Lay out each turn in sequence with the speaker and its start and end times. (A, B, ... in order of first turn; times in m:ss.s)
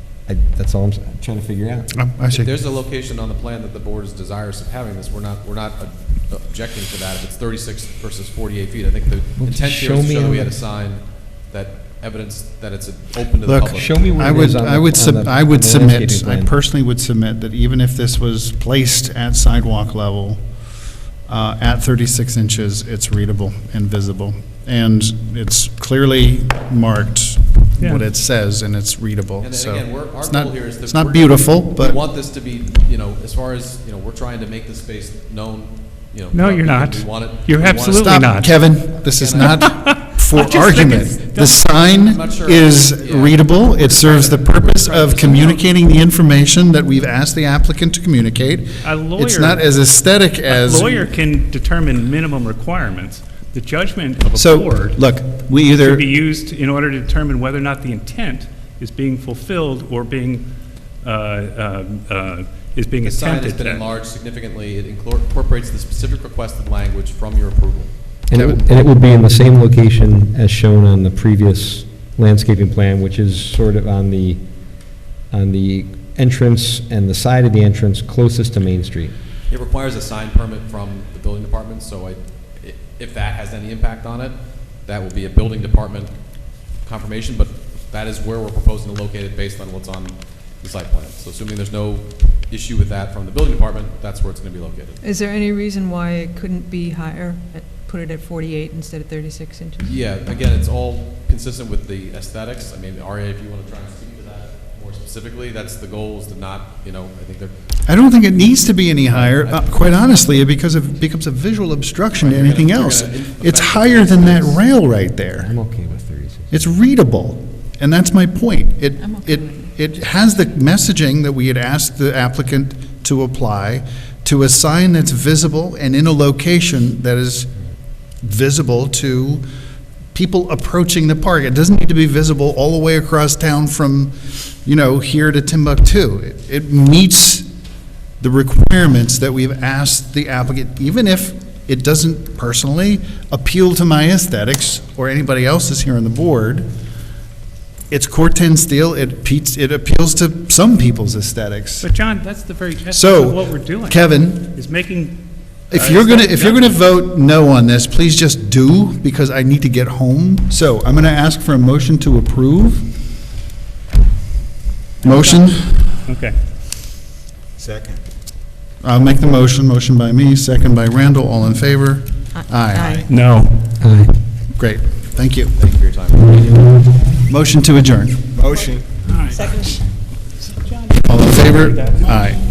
0:00.3-0:01.9 A
0:01.9-0:02.5 B
0:02.3-0:14.1 C
0:09.4-0:10.5 A
0:13.5-0:20.4 B
0:13.7-0:16.5 A
0:21.3-0:32.0 B
0:29.4-0:38.5 C
0:36.3-0:38.5 D
0:37.9-0:51.1 B
0:39.2-0:39.6 C
0:39.5-0:41.7 D
0:41.9-0:45.4 C
0:44.7-0:45.6 D
0:48.8-0:49.6 D
0:50.4-0:55.0 D
0:54.4-0:56.1 B
0:55.7-1:00.5 D
1:01.0-1:03.8 D
1:03.0-1:08.6 C
1:08.3-1:14.4 A
1:15.3-1:19.1 A
1:19.5-1:26.1 C
1:26.8-1:35.0 C
1:35.0-1:40.0 E
1:39.8-1:47.5 C
1:47.9-1:55.5 B
1:49.1-1:50.0 C
1:52.2-1:54.6 C
1:55.4-1:56.6 A
1:56.5-2:07.5 B
1:59.0-1:59.9 E
2:08.2-2:09.4 B
2:10.1-2:17.5 B
2:18.2-2:26.7 B
2:27.9-2:31.9 B
2:31.8-2:36.8 D
2:32.9-2:34.5 B
2:35.7-2:42.9 B
2:45.0-2:46.0 B
2:46.0-2:46.4 D
2:48.8-2:53.0 B
2:52.4-2:53.1 E
2:53.1-2:53.7 D
2:53.8-2:54.2 A
2:54.6-2:55.5 B
2:55.5-2:56.7 C
2:57.3-2:58.4 B
2:59.0-2:59.8 D
2:59.3-2:59.8 E
3:00.4-3:02.3 D
3:01.0-3:02.4 B